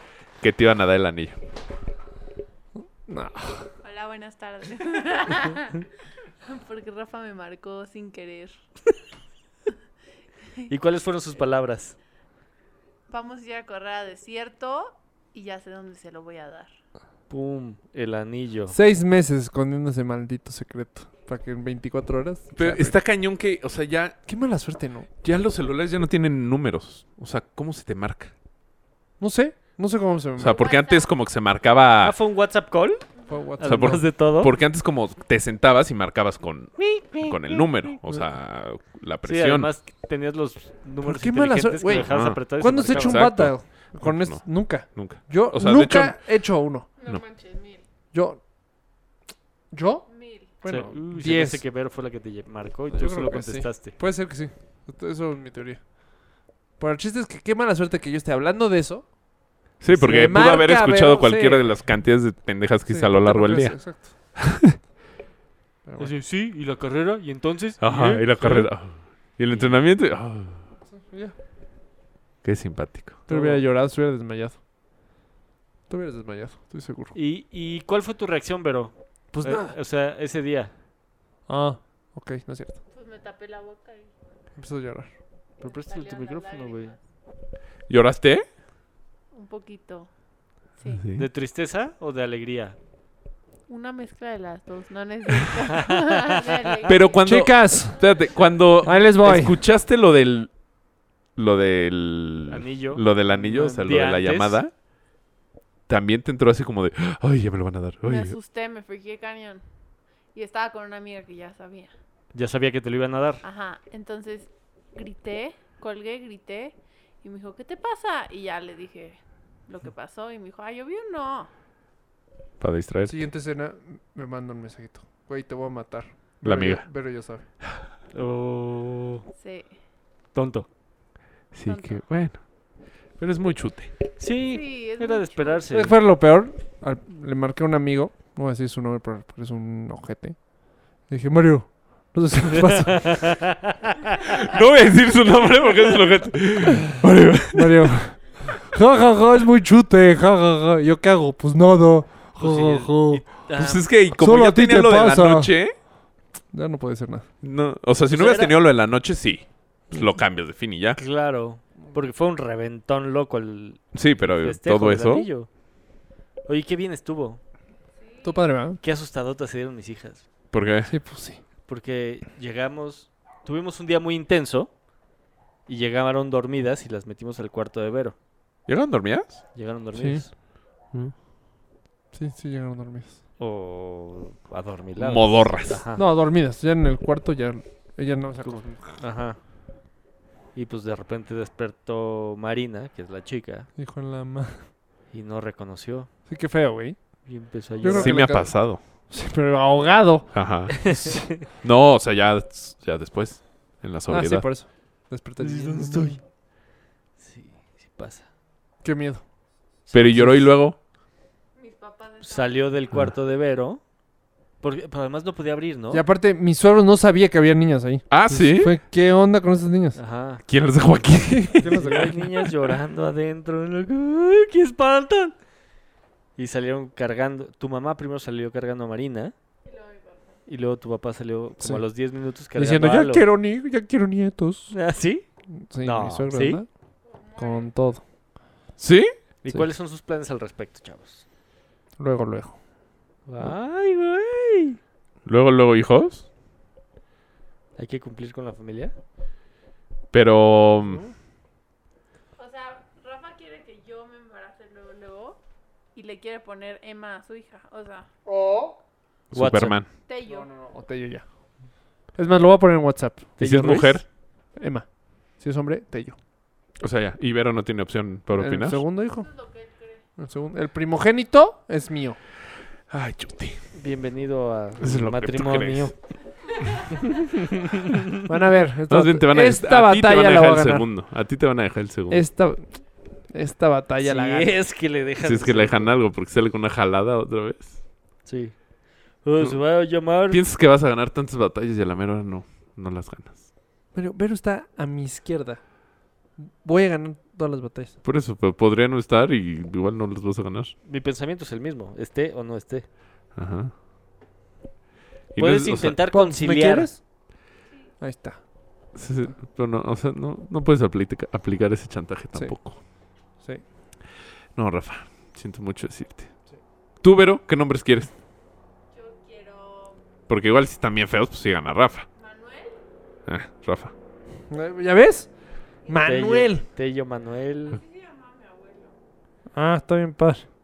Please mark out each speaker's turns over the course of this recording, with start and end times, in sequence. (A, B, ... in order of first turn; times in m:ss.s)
0:00.4-0:01.4 A
0:03.1-0:03.7 B
0:03.8-0:05.8 C
0:06.4-0:08.5 C
0:10.7-0:12.0 D
0:13.1-0:16.7 C
0:17.3-0:18.8 D
0:18.7-0:23.0 B
0:22.6-0:24.2 A
0:24.3-0:25.1 B
0:25.2-0:28.3 A
0:29.2-0:30.7 B
0:30.4-0:32.2 A
0:30.5-0:31.1 C
0:32.0-0:34.5 D
0:33.3-0:34.0 B
0:33.6-0:39.7 A
0:39.2-0:43.3 D
0:41.0-0:46.9 B
0:42.0-0:46.2 A
0:47.0-0:47.8 C
0:48.1-0:48.4 B
0:49.7-0:50.1 B
0:50.1-0:50.6 C
0:50.6-0:51.6 B
0:50.6-0:54.0 D
0:52.9-0:59.1 B
0:59.8-1:04.8 A
0:59.9-1:01.8 B
1:02.9-1:04.1 B
1:05.8-1:06.1 B
1:06.0-1:08.7 D
1:07.8-1:10.6 A
1:09.5-1:09.8 D
1:11.0-1:11.3 B
1:12.4-1:13.2 A
1:13.3-1:14.6 B
1:13.3-1:13.6 D
1:15.9-1:17.1 B
1:17.1-1:20.7 D
1:19.3-1:19.7 B
1:21.5-1:22.8 B
1:22.9-1:24.1 C
1:24.6-1:25.1 B
1:25.6-1:26.9 D
1:25.7-1:27.0 C
1:27.9-1:28.4 A
1:29.3-1:30.1 C
1:30.8-1:31.0 C
1:30.9-1:31.2 A
1:31.1-1:32.8 D
1:33.7-1:37.4 C
1:35.7-1:36.2 D
1:36.8-1:40.5 A
1:37.2-1:38.0 B
1:38.8-1:39.5 B
1:41.4-1:44.7 A
1:42.5-1:44.6 D
1:45.9-1:48.4 A
1:48.0-1:49.6 C
1:50.3-1:51.9 C
1:52.3-1:53.4 D
1:53.4-2:01.5 C
2:02.6-2:03.2 A
2:03.1-2:07.4 B
2:06.4-2:06.9 A
2:08.1-2:09.2 D
2:09.4-2:09.7 C
2:10.3-2:10.7 D
2:11.5-2:12.4 A
2:11.6-2:12.0 C
2:13.2-2:13.9 A
2:14.2-2:15.9 D
2:14.4-2:15.7 C
2:15.7-2:20.5 B
2:21.0-2:23.3 B
2:22.8-2:24.2 D
2:24.2-2:27.9 A
2:27.5-2:33.2 B
2:32.4-2:33.9 D
2:33.6-2:35.7 A
2:34.2-2:35.5 B
2:36.5-2:37.3 B
2:37.4-2:41.0 A
2:38.1-2:38.5 D
2:41.0-2:45.5 D
2:43.9-2:45.3 A
2:46.4-2:47.4 D
2:48.0-2:48.4 C
2:48.2-2:48.8 B
2:48.8-2:50.3 D
2:50.5-2:50.9 A
2:50.9-2:51.4 B
2:51.6-2:54.7 D
2:55.7-2:58.2 D
2:58.7-2:59.4 A
2:59.5-3:00.3 D
3:00.0-3:00.2 B
3:02.1-3:03.2 B
3:03.4-3:06.0 D
3:05.0-3:05.8 A
3:05.9-3:09.0 B
3:08.4-3:09.4 D
3:10.5-3:13.7 D
3:13.8-3:14.7 B
3:15.1-3:16.1 D
3:16.3-3:17.2 B
3:17.2-3:18.2 D
3:17.8-3:21.2 B
3:17.9-3:18.8 A
3:20.3-3:24.5 A
3:21.0-3:21.4 D
3:24.1-3:26.2 B
3:25.4-3:26.2 D
3:27.2-3:28.3 D
3:28.8-3:29.2 B
3:29.9-3:30.3 D
3:29.9-3:30.8 A
3:30.1-3:30.4 B
3:31.6-3:32.8 C
3:32.2-3:33.8 D
3:34.6-3:36.0 D
3:35.9-3:40.0 B
3:38.1-3:38.8 A
3:39.9-3:40.4 D
3:40.4-3:42.1 A
3:41.4-3:42.2 B
3:41.6-3:45.3 D
3:46.4-3:49.3 D
3:49.6-3:50.4 C
3:50.5-3:53.3 D
3:52.5-3:54.7 B
3:54.7-3:55.2 D
3:55.6-3:56.7 B
3:55.8-3:56.6 D
3:57.0-3:57.7 C
3:57.4-3:58.0 B
3:58.8-3:59.1 A
3:59.4-4:01.2 D
4:02.0-4:02.6 B
4:03.3-4:04.8 D
4:05.2-4:06.2 A
4:07.8-4:08.9 D
4:10.1-4:11.0 A
4:10.9-4:11.1 B
4:12.4-4:15.4 C
4:15.9-4:18.1 C
4:18.3-4:18.7 B
4:19.3-4:19.9 A
4:19.3-4:19.8 D
4:20.1-4:20.5 C
4:20.3-4:21.2 B
4:22.1-4:23.4 B
4:23.4-4:24.0 D
4:23.4-4:24.0 A
4:24.6-4:26.2 B
4:26.8-4:28.8 A
4:28.4-4:29.3 B
4:29.2-4:30.0 C
4:30.2-4:32.2 B
4:32.9-4:33.6 A
4:33.7-4:35.9 D
4:34.8-4:35.9 A
4:38.2-4:40.8 B
4:38.9-4:42.3 A
4:42.1-4:44.5 B
4:44.0-4:45.9 D
4:45.2-4:47.8 A
4:48.2-4:48.6 D
4:49.2-4:50.4 D
4:50.3-4:53.4 A
4:53.9-4:55.6 B
4:56.4-4:58.0 B
4:58.0-5:00.7 A
5:00.8-5:02.8 D
5:03.4-5:03.7 A
5:05.3-5:06.0 A
5:05.4-5:06.9 D
5:06.1-5:07.0 B
5:08.0-5:08.4 B
5:08.9-5:12.8 A
5:14.6-5:16.3 A
5:17.0-5:18.1 A
5:18.9-5:20.0 C
5:20.3-5:22.0 A
5:22.2-5:22.8 C
5:23.2-5:23.9 A
5:24.5-5:25.3 B
5:25.9-5:26.6 B
5:26.0-5:27.8 D
5:27.8-5:28.9 C
5:29.5-5:30.4 B